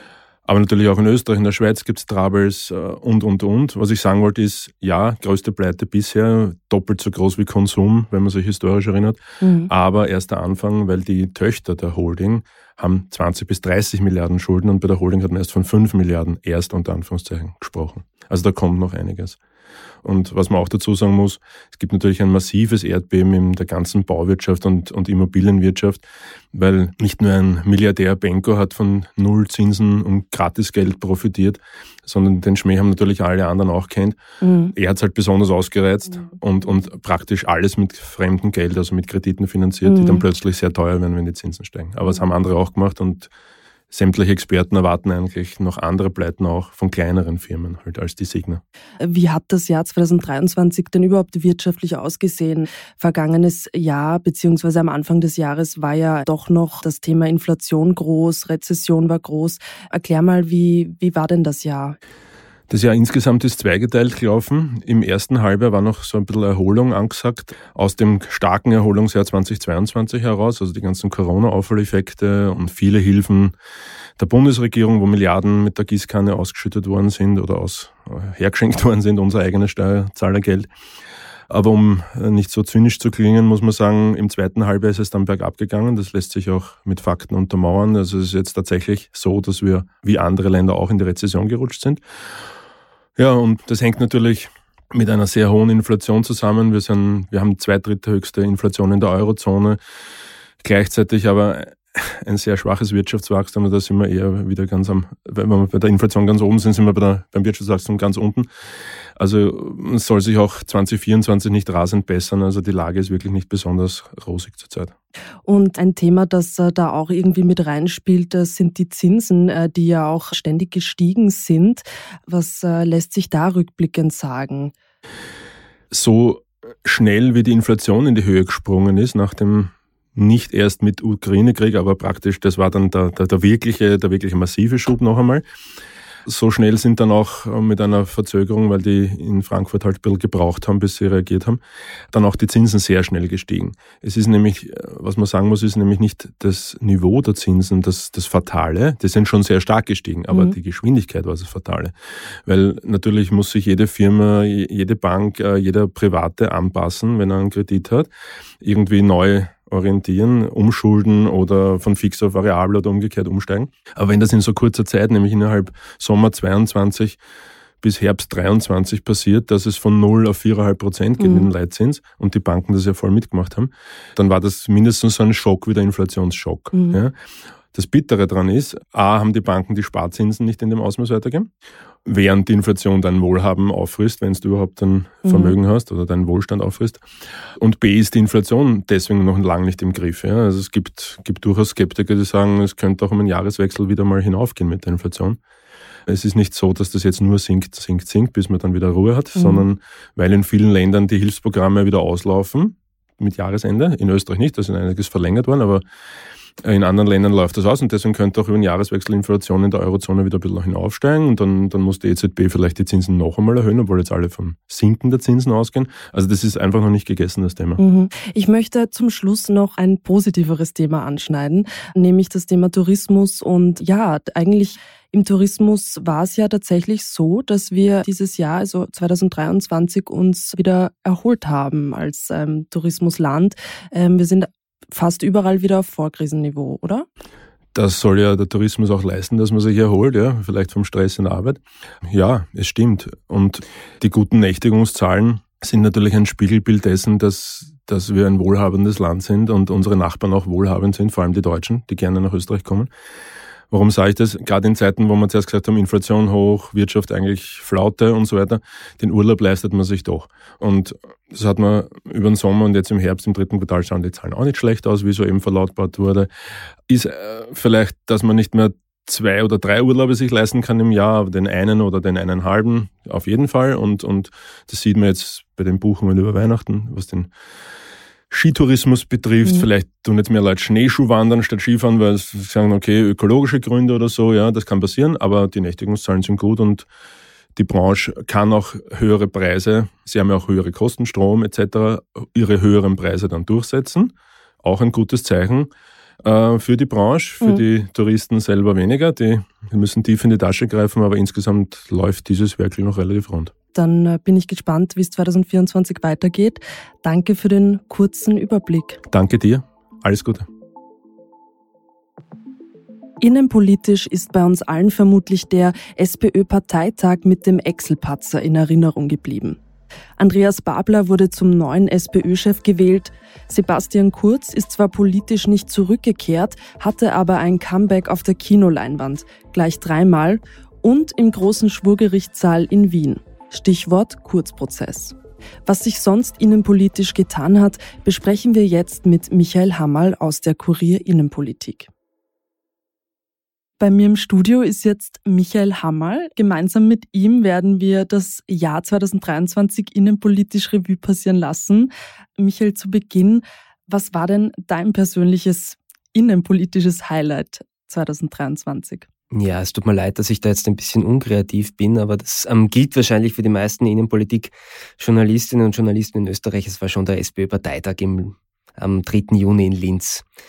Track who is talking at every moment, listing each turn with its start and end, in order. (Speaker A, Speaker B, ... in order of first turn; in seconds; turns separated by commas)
Speaker A: 0.5-19.4, Speaker B: 9.4-9.7, Speaker A: 20.0-34.2, Speaker B: 34.4-34.7, Speaker A: 34.7-43.3, Speaker B: 39.8-40.2, Speaker A: 43.9-48.6, Speaker B: 49.0-62.0, Speaker A: 62.7-73.5, Speaker A: 74.2-80.7, Speaker A: 81.5-92.0, Speaker A: 93.2-99.8, Speaker A: 100.6-108.5, Speaker A: 109.2-114.9, Speaker B: 115.5-124.7, Speaker A: 125.9-135.4, Speaker A: 136.2-141.6, Speaker A: 142.1-151.9, Speaker A: 152.4-158.1, Speaker A: 158.6-167.2, Speaker A: 167.8-177.1, Speaker B: 171.2-171.5, Speaker B: 176.7-177.0, Speaker A: 177.7-181.5, Speaker A: 182.0-187.0, Speaker B: 185.2-185.6, Speaker A: 187.6-195.4, Speaker A: 196.1-205.8, Speaker B: 199.3-199.6, Speaker A: 206.6-217.8, Speaker B: 217.8-237.1, Speaker A: 237.7-252.9, Speaker A: 253.7-266.3, Speaker A: 266.9-277.3, Speaker A: 278.3-286.9, Speaker A: 287.6-295.7, Speaker A: 296.2-303.5, Speaker B: 303.7-309.0, Speaker A: 309.1-310.5, Speaker B: 313.2-319.6, Speaker B: 320.2-335.1, Speaker B: 335.6-341.9, Speaker B: 343.8-359.1, Speaker C: 359.3-370.2